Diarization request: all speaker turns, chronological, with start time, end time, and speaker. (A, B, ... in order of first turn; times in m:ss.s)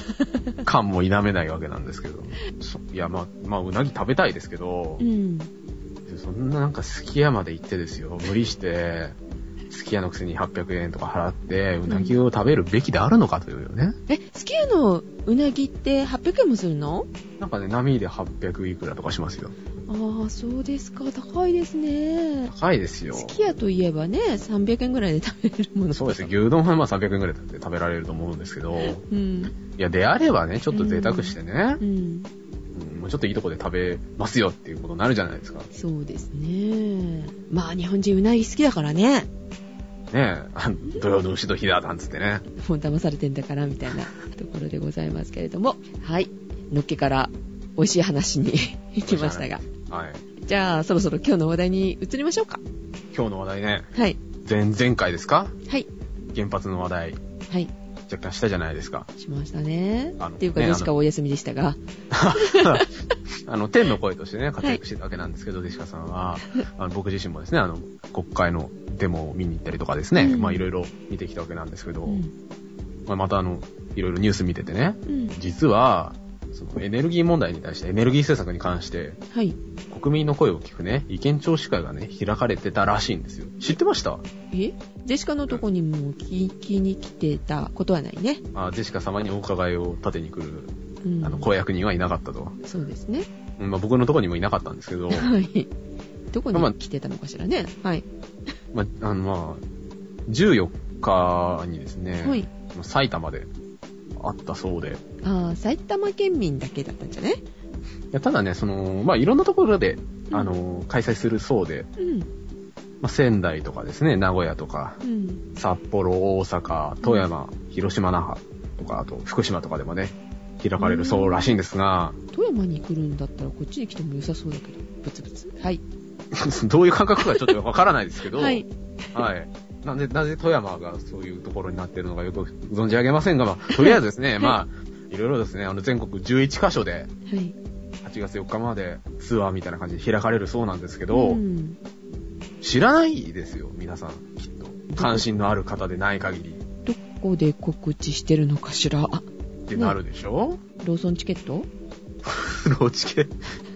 0:00.6-0:05.0 A
0:05.0-0:05.5 B
0:06.0-0:09.2 A
0:09.7-0:14.0 A
0:11.9-0:12.2 B
0:14.1-0:17.1 B
0:17.4-0:19.5 A
0:19.9-0:22.5 B
0:22.5-0:23.6 A
0:23.1-0:26.3 B
0:25.9-0:29.0 A
0:29.0-0:29.5 B
0:29.8-0:31.8 A
0:30.7-0:32.3 B
0:32.7-0:35.7 A
0:35.7-0:39.3 B
0:40.1-0:42.4 A
0:42.5-0:49.6 B
0:49.0-0:50.2 A
0:50.4-0:52.6 B
0:53.1-0:53.9 A
0:54.4-0:55.6 A
0:56.3-0:57.2 A
0:58.1-0:59.1 A
0:59.2-1:01.8 B
1:00.2-1:00.9 A
1:02.1-1:02.9 A
1:02.3-1:02.9 B
1:03.4-1:12.2 A
1:10.2-1:10.6 B
1:12.0-1:12.3 B
1:13.1-1:19.2 A
1:15.1-1:15.3 B
1:19.3-1:19.6 B
1:19.9-1:24.2 A
1:24.5-1:28.4 B
1:28.5-1:32.6 A
1:31.0-1:31.5 B
1:32.6-1:33.3 B
1:33.6-1:35.3 A
1:35.1-1:35.7 B
1:36.3-1:38.0 B
1:38.7-1:39.6 A
1:40.3-1:43.5 A
1:42.2-1:42.5 B
1:44.2-1:45.0 A
1:45.2-1:47.4 B
1:48.1-1:51.9 A
1:52.0-1:52.3 B
1:53.0-1:55.0 A
1:55.0-1:55.4 B
1:55.6-2:02.2 A
2:00.8-2:01.6 B
2:02.3-2:05.8 B
2:06.3-2:17.1 A
2:07.2-2:07.5 B
2:08.3-2:08.7 B
2:13.7-2:14.5 B
2:17.3-2:17.5 B
2:18.0-2:21.4 A
2:21.1-2:21.8 B
2:22.6-2:26.6 A
2:24.9-2:25.2 B
2:26.8-2:30.0 B
2:29.7-2:30.6 A
2:30.8-2:31.7 B
2:32.2-2:33.3 A